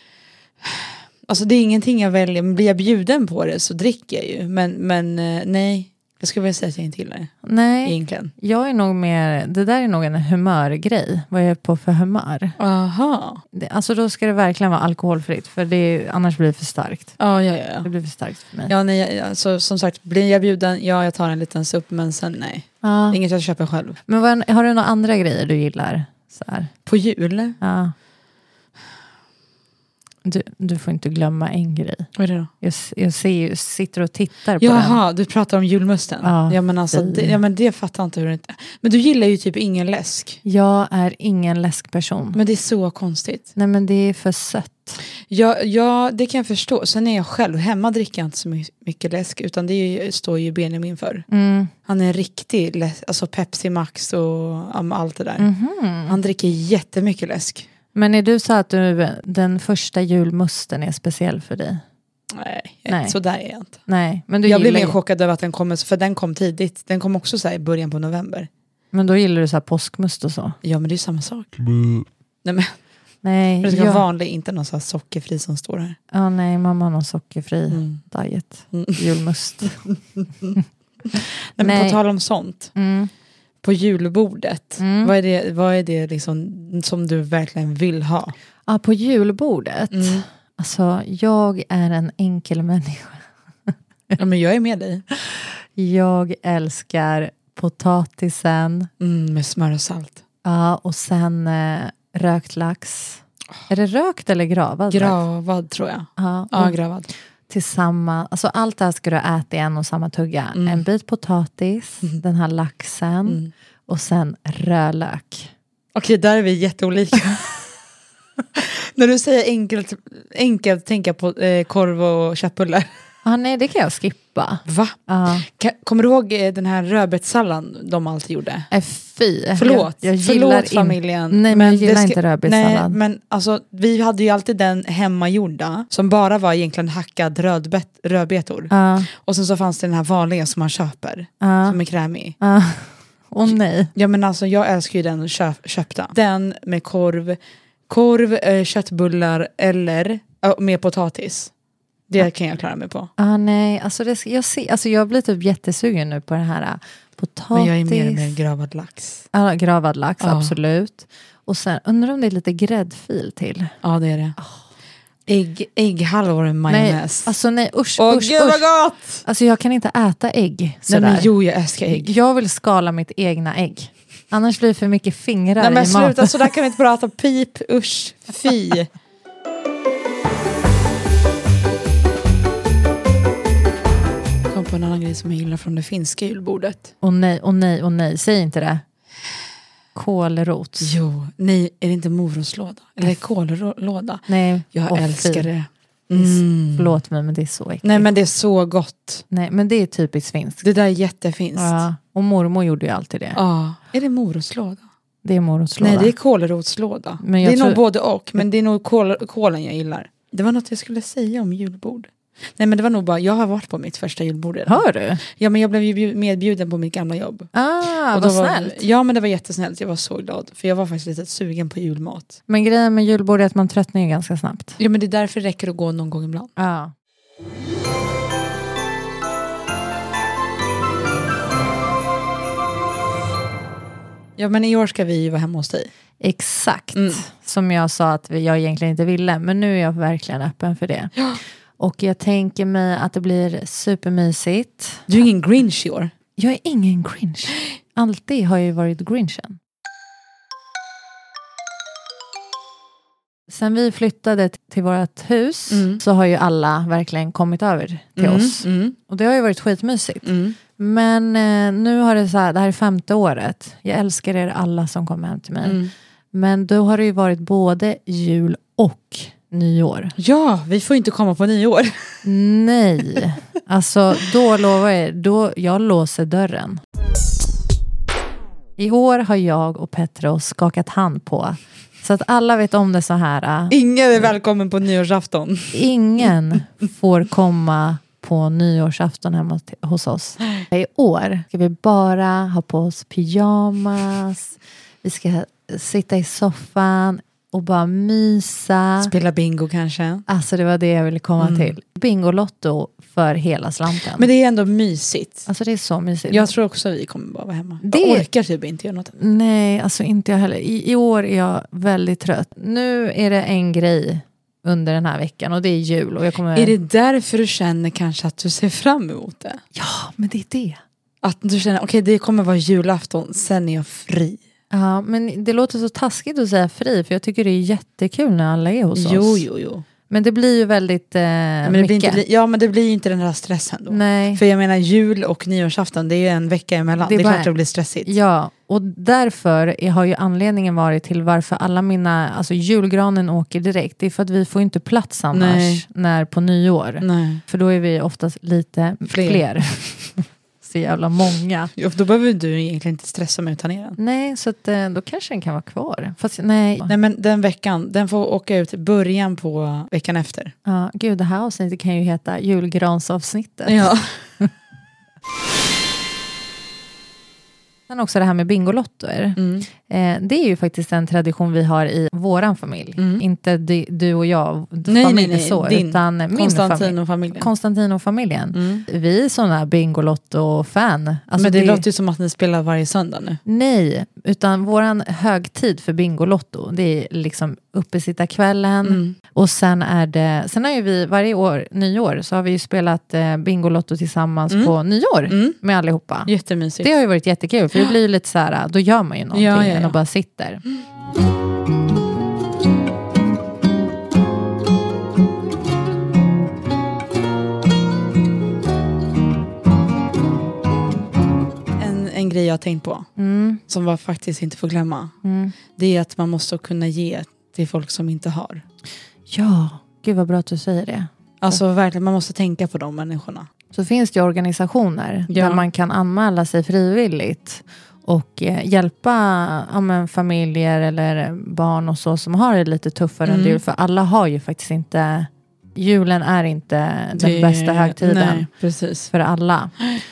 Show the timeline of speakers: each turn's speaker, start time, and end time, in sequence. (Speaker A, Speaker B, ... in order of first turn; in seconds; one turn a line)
Speaker A: 0.7-7.3
Speaker B: 7.4-12.6
Speaker A: 7.8-8.3
Speaker A: 12.6-13.4
Speaker B: 13.5-17.1
Speaker A: 17.2-17.9
Speaker B: 17.8-18.7
Speaker A: 18.7-24.0
Speaker B: 22.8-23.2
Speaker B: 24.1-26.7
Speaker A: 26.9-27.6
Speaker B: 27.6-27.9
Speaker B: 30.2-35.0
Speaker A: 32.2-32.5
Speaker A: 34.6-40.4
Speaker B: 36.2-37.4
Speaker B: 40.4-42.4
Speaker A: 42.3-43.5
Speaker B: 43.5-45.0
Speaker A: 45.2-51.3
Speaker B: 51.3-51.7
Speaker A: 51.9-55.5
Speaker B: 55.4-56.2
Speaker A: 56.1-57.7
Speaker B: 57.9-61.8
Speaker A: 62.3-63.8
Speaker B: 62.9-63.2
Speaker B: 63.9-65.0
Speaker A: 64.4-68.5
Speaker B: 68.9-70.6
Speaker A: 70.6-72.7
Speaker B: 73.2-74.0
Speaker A: 73.6-76.0
Speaker B: 76.1-79.8
Speaker A: 77.7-78.0
Speaker A: 78.7-80.5
Speaker B: 81.2-82.0
Speaker A: 81.6-82.7
Speaker B: 82.8-83.1
Speaker A: 83.6-88.3
Speaker B: 84.8-85.1
Speaker B: 88.7-93.3
Speaker A: 89.9-90.2
Speaker A: 94.2-95.0
Speaker B: 95.1-98.9
Speaker A: 99.0-100.2
Speaker B: 100.4-105.2
Speaker A: 104.9-107.1
Speaker B: 106.2-106.8
Speaker B: 107.5-115.5
Speaker A: 110.5-110.8
Speaker A: 113.3-113.5
Speaker A: 116.0-117.5
Speaker A: 118.5-122.9
Speaker B: 123.2-125.5
Speaker A: 124.7-128.7
Speaker B: 128.7-133.0
Speaker A: 129.6-142.4
Speaker B: 138.7-139.1
Speaker B: 141.4-141.8
Speaker B: 142.4-143.9
Speaker A: 143.5-151.5
Speaker A: 152.1-153.1
Speaker B: 153.2-158.4
Speaker A: 157.5-159.2
Speaker B: 159.3-163.7
Speaker A: 160.2-160.6
Speaker A: 163.8-164.4
Speaker A: 165.3-167.3
Speaker B: 166.7-168.7
Speaker A: 168.0-169.2
Speaker B: 169.2-171.3
Speaker A: 170.9-172.1
Speaker B: 171.9-176.4
Speaker A: 175.6-178.9
Speaker A: 184.5-186.9
Speaker B: 187.0-188.8
Speaker B: 189.9-190.9
Speaker A: 190.8-197.0
Speaker B: 194.3-195.5
Speaker B: 196.1-198.1
Speaker A: 197.8-199.3
Speaker B: 199.3-200.7
Speaker A: 200.6-201.8
Speaker B: 201.6-203.4
Speaker A: 203.3-204.8
Speaker B: 205.2-206.1
Speaker A: 205.8-217.5
Speaker B: 207.2-207.8
Speaker B: 214.7-215.2
Speaker B: 217.5-218.8
Speaker A: 218.1-222.4
Speaker B: 222.5-224.8
Speaker A: 224.8-226.5
Speaker B: 226.6-226.9
Speaker A: 234.4-235.9
Speaker B: 236.2-241.2
Speaker A: 236.9-237.2
Speaker B: 241.8-245.1
Speaker A: 245.1-246.1
Speaker B: 246.4-249.6
Speaker B: 253.5-265.8
Speaker A: 255.7-256.0
Speaker A: 258.2-259.0
Speaker A: 260.2-260.6
Speaker A: 265.6-265.9
Speaker B: 266.3-270.2
Speaker A: 270.2-272.1
Speaker B: 272.2-276.8
Speaker B: 278.8-283.8
Speaker A: 283.7-285.8
Speaker B: 285.7-299.1
Speaker A: 299.0-300.2
Speaker B: 300.3-304.3
Speaker A: 301.4-301.7
Speaker A: 304.0-305.5
Speaker B: 305.5-306.5
Speaker A: 306.3-309.1
Speaker B: 307.8-308.2
Speaker B: 309.2-316.8
Speaker A: 316.5-319.6
Speaker B: 319.8-320.8
Speaker A: 321.2-324.4
Speaker B: 324.7-329.4
Speaker A: 328.9-329.9
Speaker B: 330.1-332.2
Speaker A: 331.6-338.2
Speaker B: 333.9-334.4
Speaker B: 337.0-337.5
Speaker B: 338.1-351.7
Speaker A: 345.3-345.8
Speaker A: 347.0-347.4
Speaker A: 349.1-349.5
Speaker A: 351.8-354.0
Speaker B: 354.0-356.9
Speaker A: 356.9-360.5
Speaker B: 360.6-364.5
Speaker A: 363.7-364.2
Speaker B: 367.9-381.8
Speaker A: 369.4-369.7
Speaker A: 373.0-373.2
Speaker A: 374.9-377.5
Speaker A: 378.5-378.9
Speaker A: 381.4-383.4
Speaker B: 383.4-400.6
Speaker A: 388.8-389.2
Speaker A: 394.5-394.8
Speaker A: 395.3-395.6
Speaker A: 396.3-396.9
Speaker A: 399.3-400.0
Speaker A: 411.8-413.1
Speaker B: 413.2-413.6
Speaker A: 413.7-415.1
Speaker B: 415.2-415.6
Speaker A: 415.8-418.6
Speaker B: 419.3-421.6
Speaker A: 421.4-423.5
Speaker B: 423.7-438.5
Speaker A: 425.3-425.6
Speaker A: 433.3-433.6
Speaker A: 437.1-439.1
Speaker B: 439.1-439.8